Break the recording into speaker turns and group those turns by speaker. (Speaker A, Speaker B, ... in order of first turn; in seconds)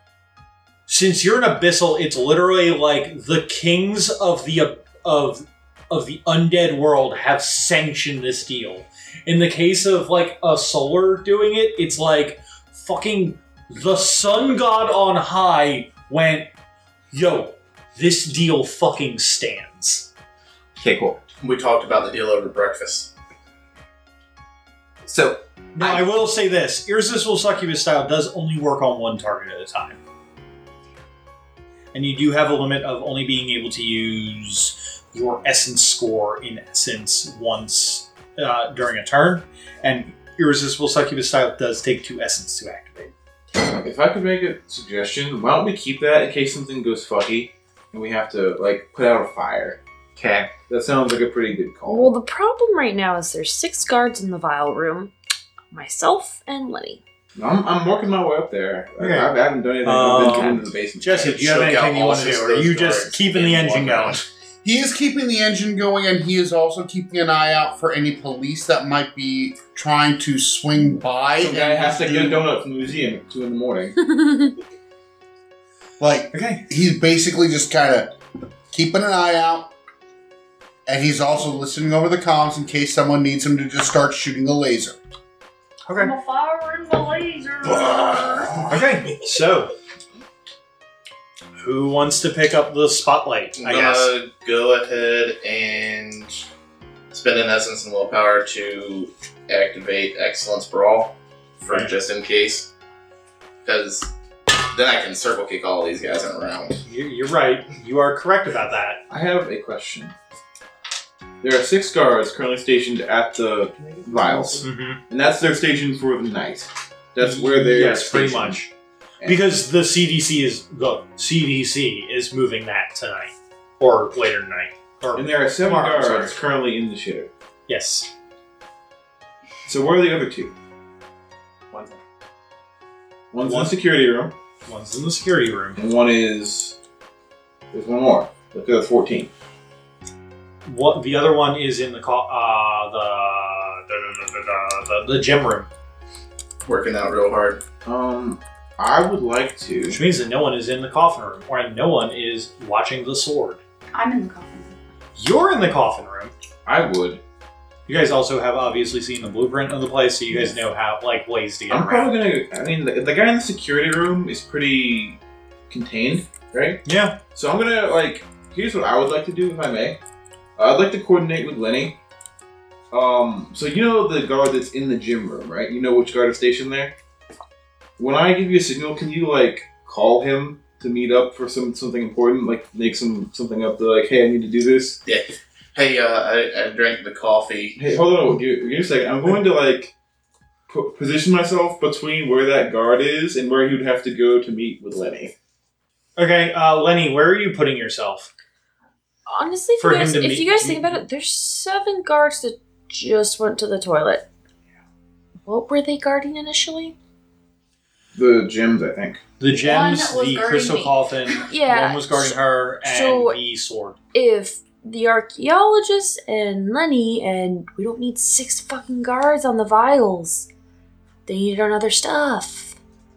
Speaker A: 0.9-16.5, 17.1-20.1, 25.8-30.0, 31.9-43.1, 59.0-59.3, 59.8-64.2, 76.3-76.7, 85.9-86.1, 88.7-89.7, 91.6-94.1, 106.8-109.0, 114.6-115.0, 117.2-118.7, 119.2-126.4, 127.7-128.1, 133.4-133.8, 134.7-135.8, 140.7-145.7, 149.9-153.6, 155.2-156.3, 157.9-162.1, 166.8-167.2, 196.2-198.3, 199.8-201.0, 209.4-214.0
Speaker B: 20.8-21.2, 25.1-26.1, 50.2-50.5
Speaker C: 21.4-23.1, 61.4-64.2, 93.6-96.4, 97.1-102.7, 103.6-104.1, 104.7-106.8, 146.6-147.6, 185.1-187.8
Speaker D: 43.6-49.8, 50.7-52.2, 57.4-61.4, 71.4-74.0, 109.1-110.1, 111.4-118.6, 125.1-127.3, 129.7-130.5, 133.3-134.3, 135.8-136.8, 137.7-139.3, 147.8-150.0, 156.7-157.2, 161.7-165.2, 165.7-170.0, 170.6-172.0, 172.9-176.9, 178.0-185.0, 187.8-189.9, 190.7-195.3, 208.1-209.2
Speaker E: 51.9-55.1, 55.7-57.0, 74.1-74.5, 199.3-204.3, 205.5-206.9, 211.5-213.4, 214.1-220.5, 221.3-222.8
Speaker F: 64.6-72.5, 76.0-78.1, 78.7-79.7, 80.9-85.0
Speaker G: 86.0-88.5, 153.9-154.8, 209.6-211.1